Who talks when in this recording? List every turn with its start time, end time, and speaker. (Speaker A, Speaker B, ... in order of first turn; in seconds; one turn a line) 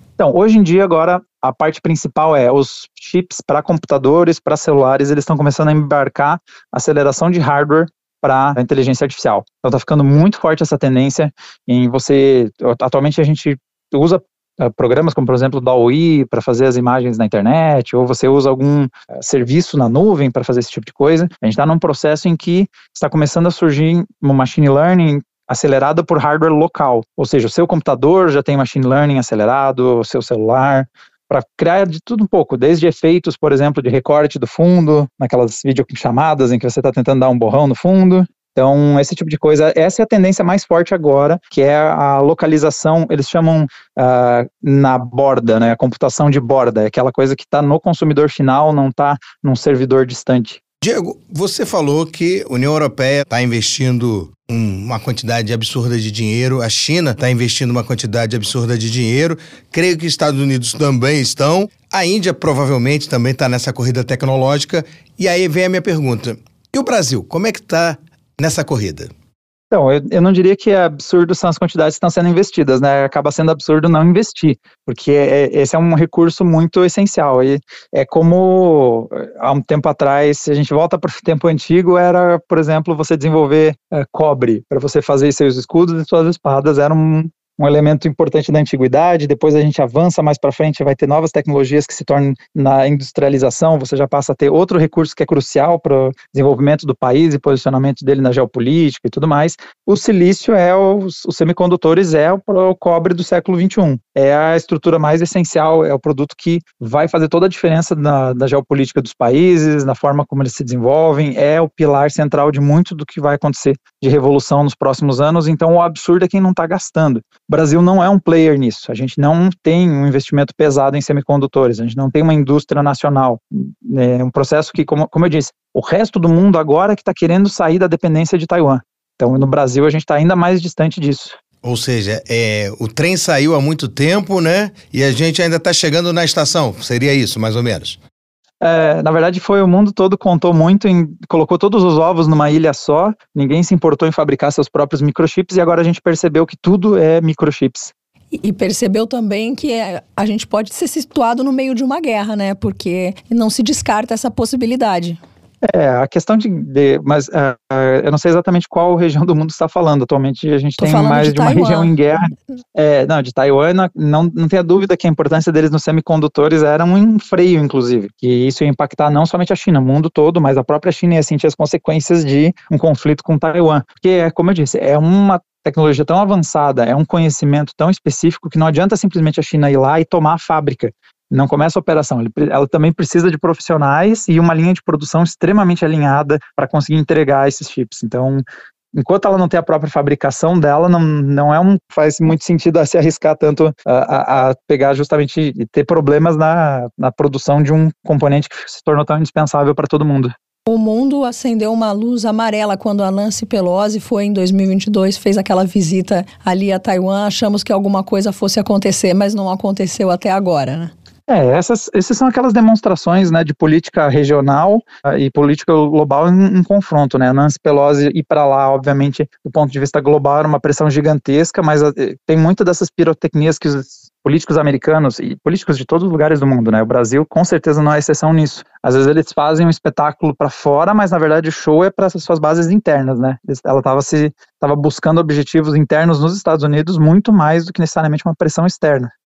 Speaker A: 0.2-50.6
Speaker B: 50.8-69.1
Speaker A: 69.7-131.4
Speaker B: 131.6-138.0
Speaker A: 138.6-147.9
Speaker C: 148.3-155.2
Speaker A: 155.6-200.3
Speaker C: 160.8-161.9
Speaker C: 200.7-210.9
Speaker A: 211.3-239.1